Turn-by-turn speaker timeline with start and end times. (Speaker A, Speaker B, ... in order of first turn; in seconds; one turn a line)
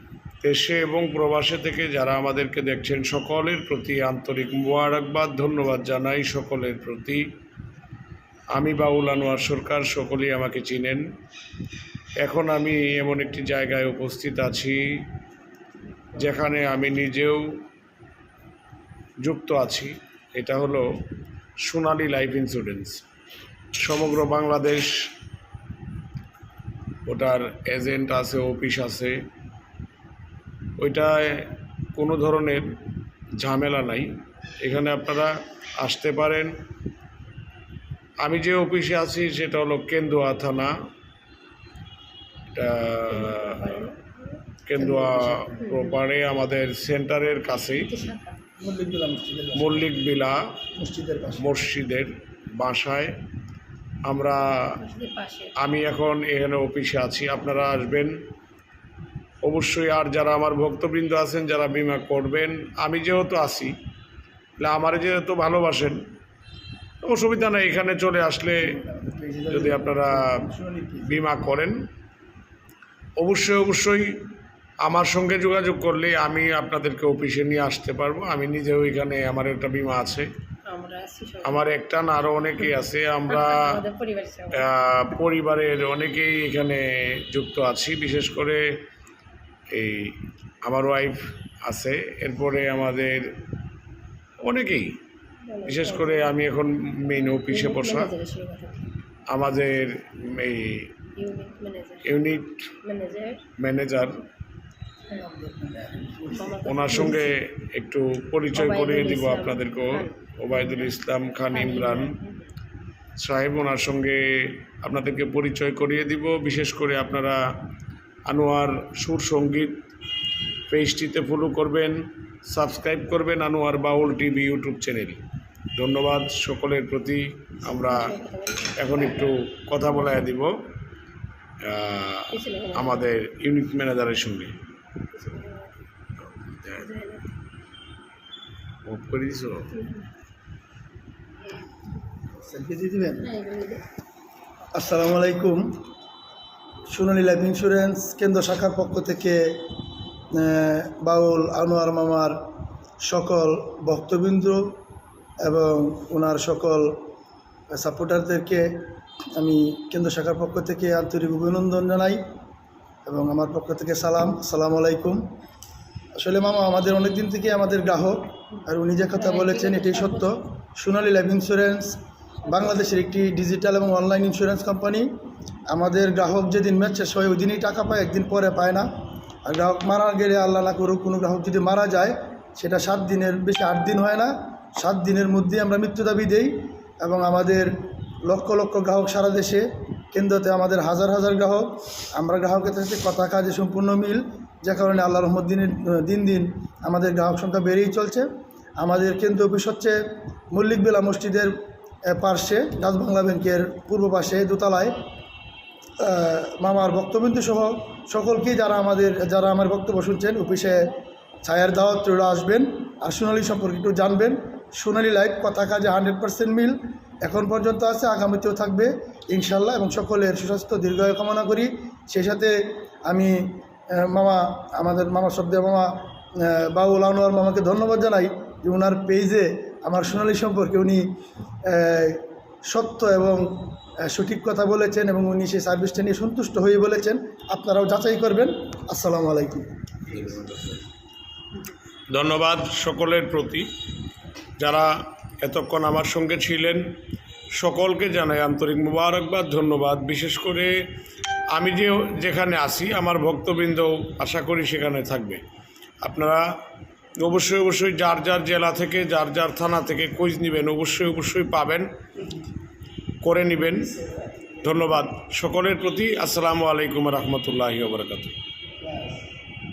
Speaker A: 0.4-7.2
Speaker A: 8.5-11.0
Speaker A: 12.2-14.8
Speaker A: 16.1-17.4
Speaker A: 19.2-20.9
Speaker A: 21.6-23.0
Speaker A: 23.8-25.1
Speaker A: 27.1-29.2
Speaker A: 30.8-32.7
Speaker A: 33.4-36.5
Speaker A: 38.2-40.7
Speaker A: 42.5-43.8
Speaker B: 43.1-44.4
Speaker A: 44.6-47.9
Speaker C: 44.8-45.6
Speaker B: 45.6-46.0
Speaker B: 47.8-48.4
Speaker C: 48.6-50.0
Speaker A: 49.6-50.4
Speaker C: 50.8-51.5
Speaker A: 51.4-53.1
Speaker A: 54.1-54.8
Speaker B: 54.7-55.6
Speaker A: 55.6-58.2
Speaker A: 59.4-63.7
Speaker A: 64.6-66.0
Speaker A: 67.0-68.8
Speaker C: 68.6-71.2
Speaker A: 69.5-70.3
Speaker A: 71.0-71.8
Speaker A: 73.2-74.2
Speaker A: 74.8-80.3
Speaker B: 80.7-81.7
Speaker A: 81.4-83.8
Speaker B: 83.3-84.7
Speaker A: 84.5-88.6
Speaker A: 89.7-93.3
Speaker A: 94.4-95.0
Speaker B: 95.5-96.4
Speaker A: 95.7-98.1
Speaker B: 97.1-98.9
Speaker A: 99.3-100.9
Speaker B: 101.2-102.2
Speaker A: 102.0-102.7
Speaker B: 102.8-103.4
Speaker A: 103.6-104.2
Speaker C: 105.1-106.8
Speaker B: 106.3-107.3
Speaker A: 106.6-112.2
Speaker B: 108.5-110.9
Speaker B: 111.5-112.4
Speaker A: 113.2-117.4
Speaker A: 118.3-119.8
Speaker A: 120.7-125.2
Speaker A: 125.8-128.1
Speaker B: 127.7-129.3
Speaker A: 128.8-130.5
Speaker A: 131.7-134.6
Speaker B: 132.3-133.1
Speaker B: 135.2-135.7
Speaker A: 136.2-136.8
Speaker B: 136.7-137.3
Speaker A: 138.9-139.7
Speaker C: 142.4-143.3
Speaker B: 143.2-143.8
Speaker C: 144.7-145.6
Speaker C: 146.9-149.4
Speaker C: 150.3-152.3
Speaker C: 153.0-154.7
Speaker C: 155.4-157.0
Speaker C: 157.7-158.8
Speaker C: 159.4-162.2
Speaker C: 163.1-165.2
Speaker C: 166.1-175.1
Speaker B: 169.2-170.4
Speaker C: 175.7-178.8
Speaker C: 179.4-187.7
Speaker C: 188.3-198.3
Speaker C: 198.8-200.0
Speaker C: 200.5-201.5
Speaker C: 202.1-205.0
Speaker C: 206.0-222.6
Speaker C: 223.1-223.3
Speaker C: 223.9-231.0
Speaker C: 231.7-233.4
Speaker C: 234.0-239.7
Speaker A: 240.2-240.8
Speaker A: 242.1-243.7
Speaker A: 244.6-246.9
Speaker A: 247.6-250.7
Speaker A: 251.5-255.4
Speaker A: 256.0-256.4
Speaker A: 257.2-261.9
Speaker A: 263.2-263.9
Speaker A: 264.6-268.4
Speaker C: 268.8-269.2